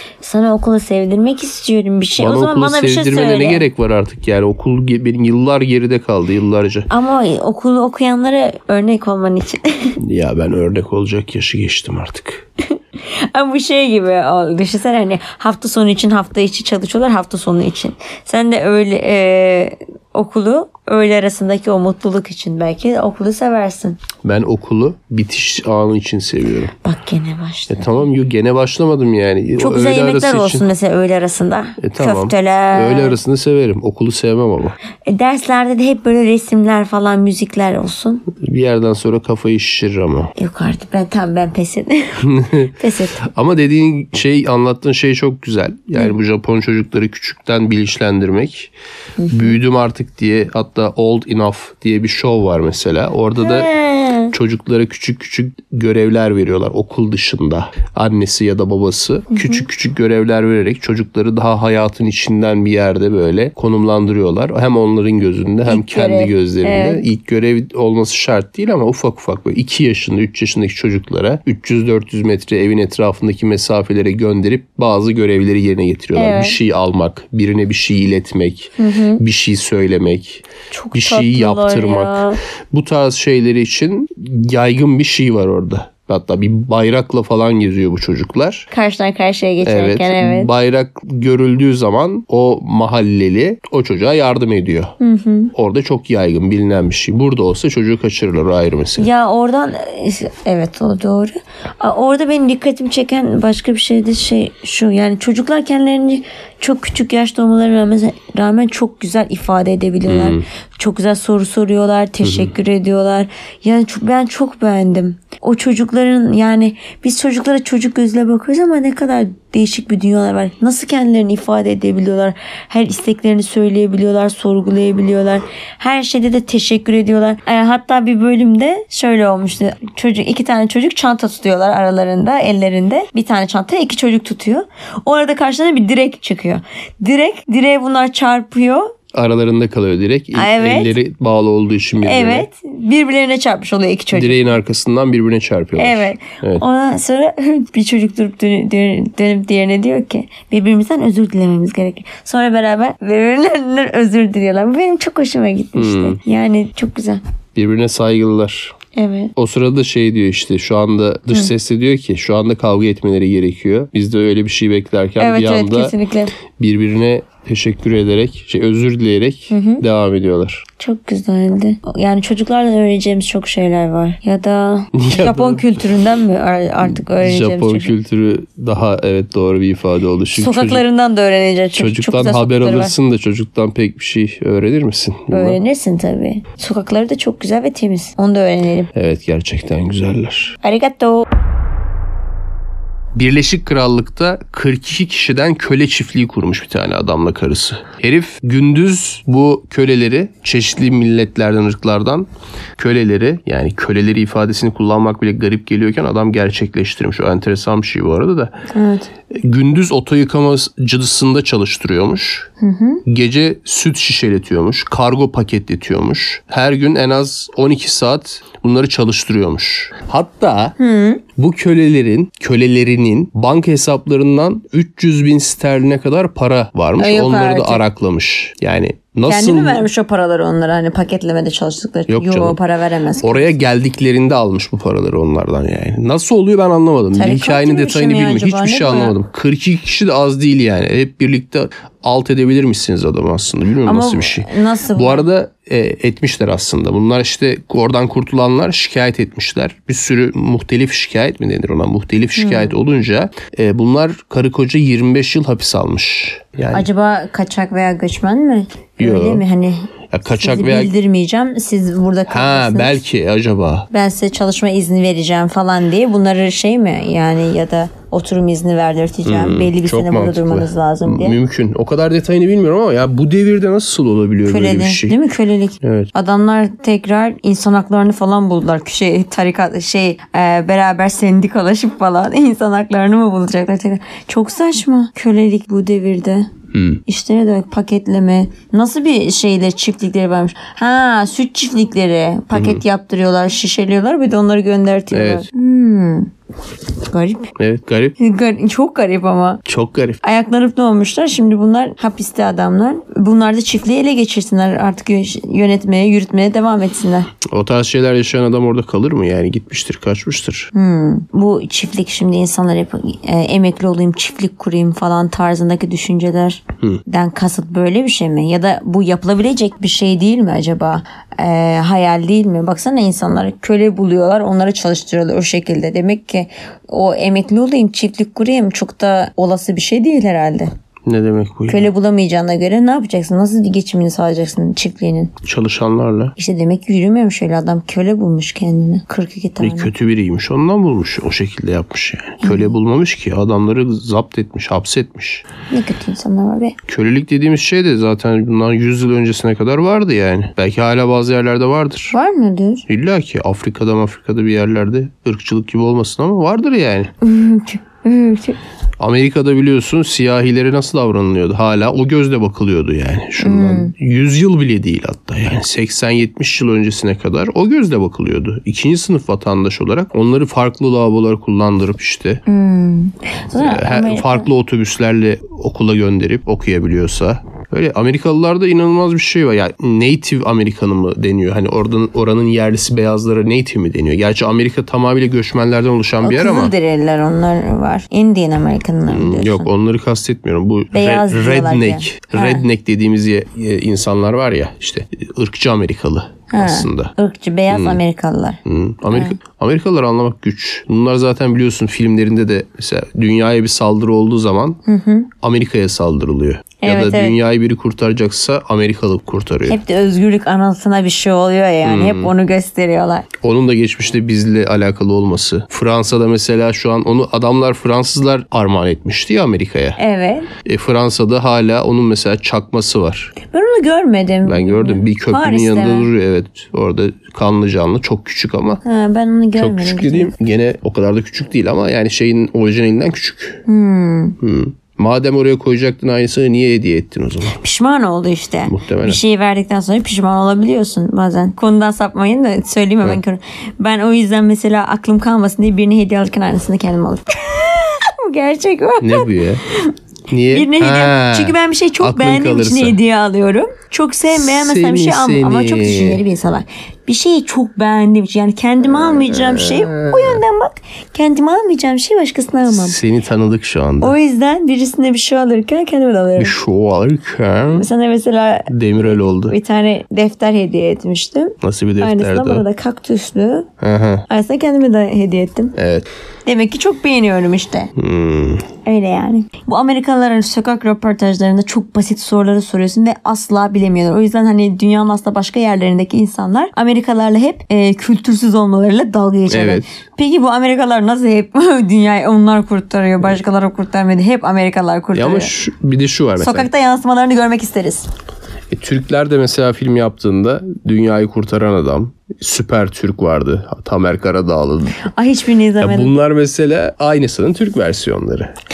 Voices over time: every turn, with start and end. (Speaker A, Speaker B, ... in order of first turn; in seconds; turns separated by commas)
Speaker A: 0.2-3.7, Speaker B: 2.2-6.9, Speaker A: 6.9-10.0, Speaker B: 10.0-12.4, Speaker A: 13.0-24.0, Speaker B: 24.2-26.7, Speaker A: 26.8-28.1, Speaker B: 27.7-30.7, Speaker A: 29.6-33.2, Speaker B: 31.8-34.7, Speaker A: 35.0-38.2, Speaker B: 38.4-40.3, Speaker A: 40.4-43.2, Speaker B: 42.2-42.7, Speaker B: 43.2-48.7, Speaker A: 49.2-49.6, Speaker B: 49.3-53.7, Speaker A: 53.4-54.3, Speaker B: 54.3-88.7, Speaker A: 59.3-59.7, Speaker A: 65.7-67.0, Speaker A: 76.2-76.6, Speaker A: 78.8-79.2, Speaker A: 80.7-82.4, Speaker A: 88.7-90.5, Speaker B: 89.6-94.9, Speaker A: 95.0-95.5, Speaker B: 95.5-99.1, Speaker A: 99.0-138.9, Speaker B: 110.1-110.4, Speaker B: 112.2-112.5, Speaker B: 139.1-142.5, Speaker A: 140.3-140.9, Speaker A: 142.0-144.5, Speaker B: 144.1-146.6, Speaker A: 145.8-157.2, Speaker B: 155.8-156.2, Speaker B: 157.6-158.7, Speaker A: 158.9-159.3, Speaker B: 159.4-165.9, Speaker A: 165.2-166.3, Speaker B: 166.6-170.6, Speaker A: 169.5-169.8, Speaker A: 170.8-177.9, Speaker B: 174.9-175.7, Speaker B: 176.8-180.8, Speaker A: 180.3-182.9, Speaker B: 181.8-185.6, Speaker A: 185.3-188.9, Speaker B: 188.9-190.6, Speaker A: 190.6-191.2, Speaker B: 193.2-202.3, Speaker B: 202.8-208.5, Speaker A: 208.7-209.1, Speaker B: 209.3-212.5, Speaker A: 212.6-213.0, Speaker B: 213.1-220.8, Speaker A: 220.8-221.2, Speaker B: 221.4-229.9, Speaker A: 227.0-227.8, Speaker A: 229.2-233.6, Speaker B: 232.1-232.6, Speaker B: 233.2-256.9, Speaker A: 237.1-239.1, Speaker A: 243.8-245.3, Speaker A: 252.4-252.8, Speaker A: 256.7-263.0, Speaker B: 259.0-259.4, Speaker B: 260.1-260.9, Speaker B: 262.3-263.9, Speaker A: 263.9-271.4, Speaker B: 269.2-275.2, Speaker A: 274.4-286.5, Speaker B: 275.8-276.1, Speaker B: 286.7-287.0, Speaker A: 287.1-296.3, Speaker B: 292.5-292.8, Speaker B: 295.1-295.4, Speaker A: 297.1-297.5, Speaker B: 297.6-298.2, Speaker A: 298.2-299.6, Speaker B: 299.7-300.2, Speaker A: 300.2-307.3, Speaker B: 307.5-310.7, Speaker A: 310.7-330.7, Speaker B: 331.1-331.9, Speaker A: 331.7-335.3, Speaker B: 335.4-336.3, Speaker A: 336.4-339.9, Speaker B: 339.6-345.4, Speaker A: 342.4-342.7, Speaker A: 345.7-346.8, Speaker B: 346.9-352.1, Speaker A: 352.1-352.9, Speaker B: 352.9-357.1, Speaker A: 357.2-358.6, Speaker B: 359.0-372.4, Speaker A: 363.4-363.9, Speaker A: 372.4-374.5, Speaker B: 373.6-386.8, Speaker A: 386.2-389.7, Speaker B: 389.1-397.1, Speaker A: 390.9-392.7, Speaker A: 396.5-398.6, Speaker B: 397.7-398.0, Speaker B: 398.6-404.8, Speaker A: 399.1-399.4, Speaker A: 404.9-405.3, Speaker B: 405.4-409.8, Speaker A: 406.8-407.4, Speaker A: 409.7-413.3, Speaker B: 411.8-412.3, Speaker B: 413.4-420.0, Speaker A: 420.0-420.5, Speaker B: 420.6-423.3, Speaker A: 423.5-426.1, Speaker B: 424.4-428.8, Speaker A: 428.8-430.3, Speaker B: 429.6-433.6, Speaker A: 433.7-434.4, Speaker B: 434.4-437.6, Speaker A: 437.5-449.9, Speaker B: 438.7-439.2, Speaker B: 449.0-449.6, Speaker B: 450.3-453.0, Speaker A: 450.5-463.0, Speaker B: 454.3-456.2, Speaker B: 459.0-460.4, Speaker B: 462.7-464.1, Speaker A: 464.0-466.6, Speaker B: 466.4-467.9, Speaker A: 467.7-473.7, Speaker B: 468.7-469.6, Speaker B: 471.6-472.6, Speaker B: 473.8-474.2, Speaker A: 474.3-475.8, Speaker B: 475.8-476.1, Speaker A: 476.4-477.9, Speaker B: 477.9-478.7, Speaker A: 478.8-495.5, Speaker B: 489.5-489.9, Speaker B: 495.1-496.7, Speaker A: 496.4-498.1, Speaker B: 498.7-505.0, Speaker A: 505.1-506.1, Speaker B: 505.8-508.5